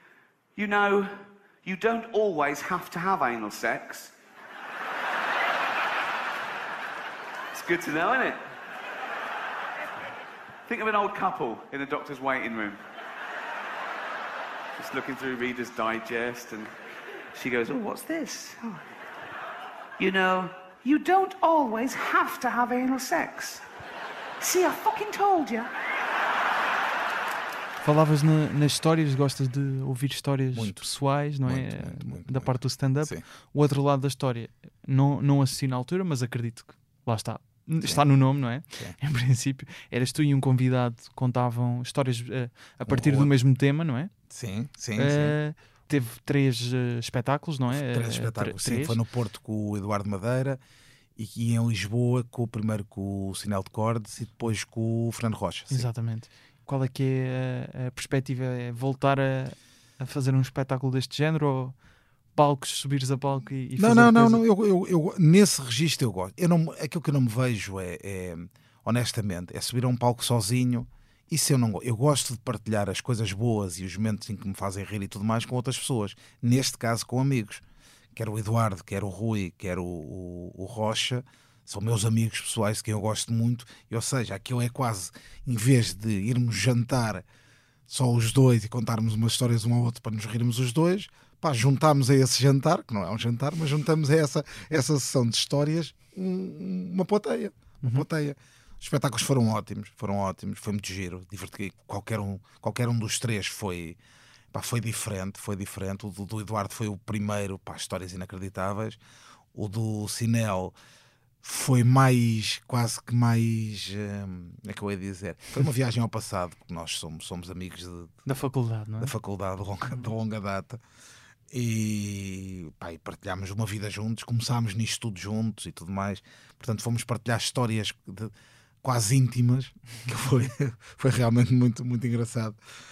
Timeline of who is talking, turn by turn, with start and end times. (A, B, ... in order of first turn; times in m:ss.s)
0:00.6-0:04.1 A
0:07.5-0:08.4 A
0:10.6-0:12.8 A
0:14.8-0:16.7 A
0:17.3-0:18.8 A
0:20.0-0:23.6 A
0:24.4-0:25.7 A
0:27.8-0:44.1 B
0:30.5-0:30.8 C
0:31.4-0:33.2 C
0:42.8-0:43.3 C
0:44.3-0:45.3 C
0:45.0-0:49.0 B
0:47.7-0:50.6 C
0:51.2-0:55.9 C
0:55.7-1:01.8 B
1:02.3-1:04.4 B
1:03.8-1:17.6 C
1:18.1-1:27.2 C
1:27.9-1:44.0 C
1:44.5-1:49.0 C
1:49.5-1:50.7 C
1:51.4-1:58.2 C
1:58.2-1:59.1 B
1:59.0-2:00.8 C
2:01.5-2:12.6 C